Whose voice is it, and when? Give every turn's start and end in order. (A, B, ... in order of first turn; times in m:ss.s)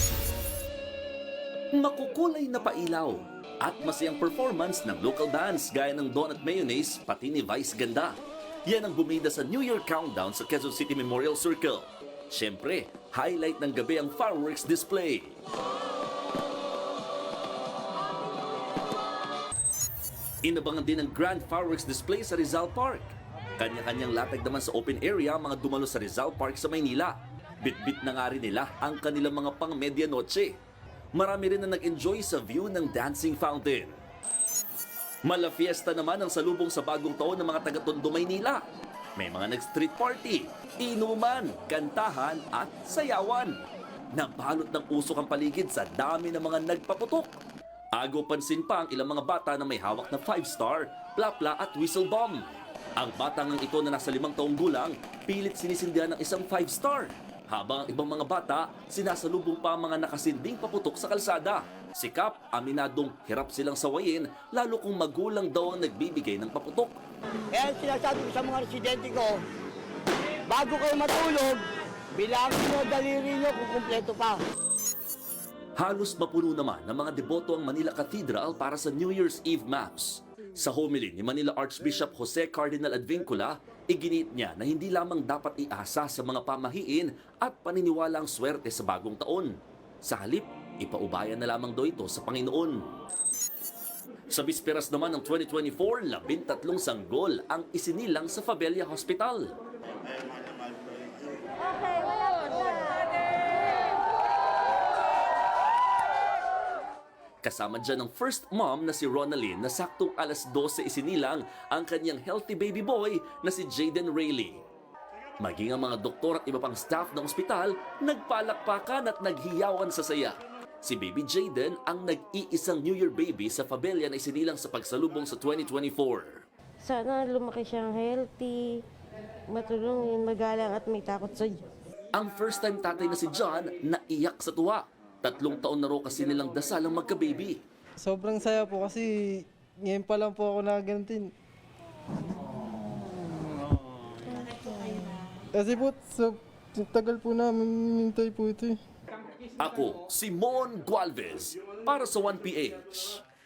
0:01.8-0:08.1 A
0:08.7-0:15.4 A
0:20.4-0:30.6 A
0:31.1-0:34.0 A
0:35.2-0:38.6 A
0:39.2-0:43.5 A
0:44.2-0:47.4 A
0:48.0-1:07.0 A
1:07.5-1:09.4 B
1:10.5-1:11.6 B
1:12.2-1:14.4 B
1:15.8-1:32.9 A
1:34.3-1:39.5 A
1:47.4-1:54.6 A
1:55.4-2:06.4 A
2:06.8-2:08.8 C
2:09.5-2:11.6 C
2:12.1-2:17.6 A
2:18.0-2:21.3 D
2:25.5-2:28.8 D
2:29.6-2:33.2 A